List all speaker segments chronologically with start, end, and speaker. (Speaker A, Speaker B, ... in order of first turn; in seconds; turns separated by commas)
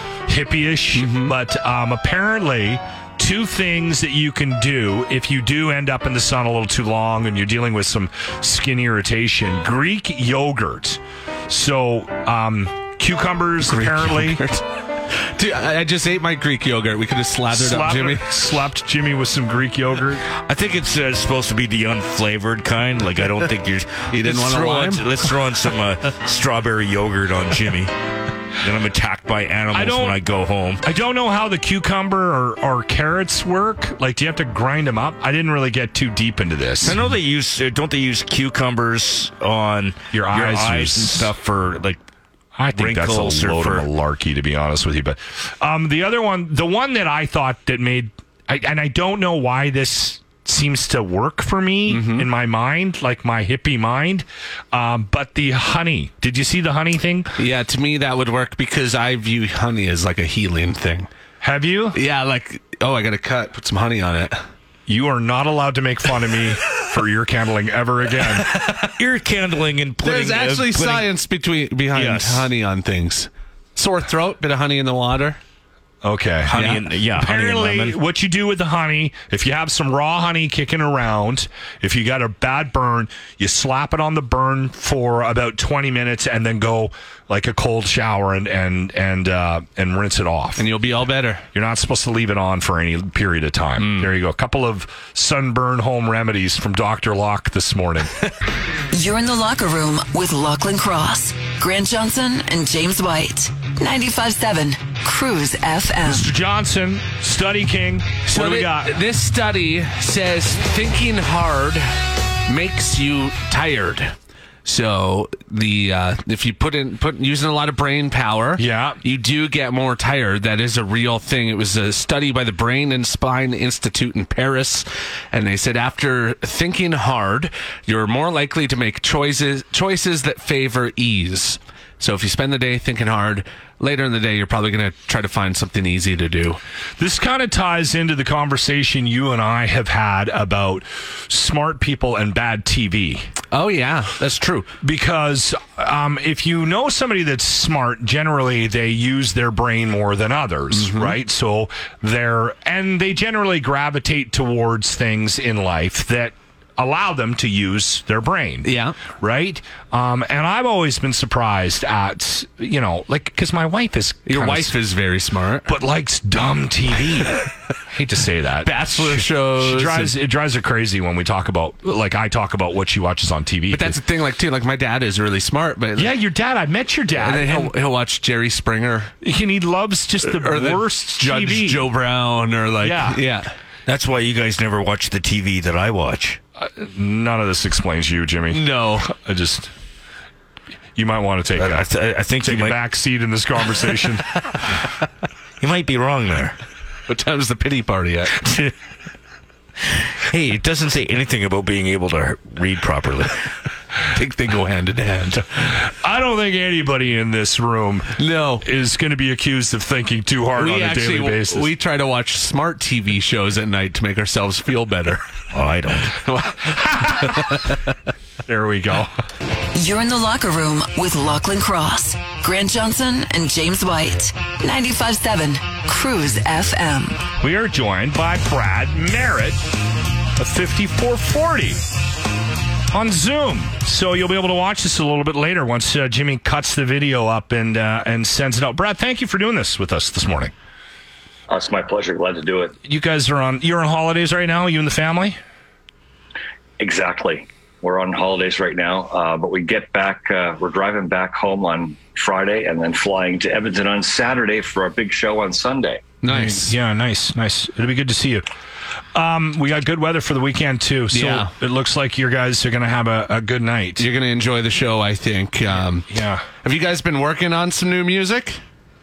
Speaker A: 0.3-14.4, Speaker B: 0.9-1.3, Speaker B: 13.6-18.3, Speaker A: 17.5-20.2, Speaker C: 20.3-27.9, Speaker B: 24.1-25.2, Speaker C: 28.6-30.8, Speaker A: 29.7-30.2, Speaker A: 30.8-37.0, Speaker C: 36.8-42.0, Speaker A: 40.1-41.3, Speaker A: 42.6-57.3, Speaker C: 42.7-43.9, Speaker B: 51.9-52.3, Speaker B: 57.4-61.1, Speaker A: 61.4-62.0, Speaker B: 61.9-64.4, Speaker A: 64.9-68.5, Speaker B: 68.5-68.9, Speaker C: 69.0-71.1, Speaker B: 70.0-75.4, Speaker C: 71.9-72.5, Speaker A: 76.0-76.5, Speaker C: 76.5-78.0, Speaker B: 76.5-76.8, Speaker A: 77.2-90.6, Speaker B: 90.6-91.4, Speaker A: 91.5-98.1, Speaker B: 93.8-94.1, Speaker D: 98.9-106.3, Speaker A: 106.0-108.9, Speaker B: 108.3-111.9, Speaker B: 112.5-114.1, Speaker B: 114.6-136.6, Speaker A: 118.6-119.0, Speaker A: 137.0-143.3, Speaker B: 143.5-144.7, Speaker A: 144.8-164.7, Speaker B: 150.7-151.2, Speaker B: 158.6-158.9, Speaker B: 164.2-165.7, Speaker A: 165.7-174.0, Speaker B: 168.6-170.1, Speaker B: 173.7-176.1, Speaker A: 175.9-177.7, Speaker B: 177.1-179.1, Speaker A: 179.2-181.9, Speaker B: 180.2-183.5, Speaker A: 182.8-183.2, Speaker C: 183.8-186.4, Speaker A: 186.6-189.7, Speaker B: 188.5-189.1, Speaker A: 190.9-191.8, Speaker C: 191.6-192.8, Speaker A: 192.4-194.3, Speaker C: 195.6-196.6, Speaker B: 197.1-198.4, Speaker C: 198.4-198.7, Speaker C: 200.2-203.4, Speaker B: 204.1-205.4, Speaker A: 205.7-211.7, Speaker B: 208.2-208.6, Speaker B: 210.6-215.2, Speaker C: 215.5-216.2, Speaker B: 216.1-217.8, Speaker A: 216.8-217.5, Speaker A: 218.5-219.1, Speaker D: 219.7-227.2, Speaker A: 227.4-229.6, Speaker A: 230.4-231.8, Speaker A: 232.9-240.5, Speaker E: 241.5-242.8, Speaker A: 242.8-245.4, Speaker E: 246.8-256.1, Speaker B: 256.2-256.7, Speaker A: 256.3-258.4, Speaker A: 259.1-264.1, Speaker B: 261.1-261.5, Speaker B: 264.0-266.1, Speaker A: 266.1-266.4, Speaker B: 266.6-268.6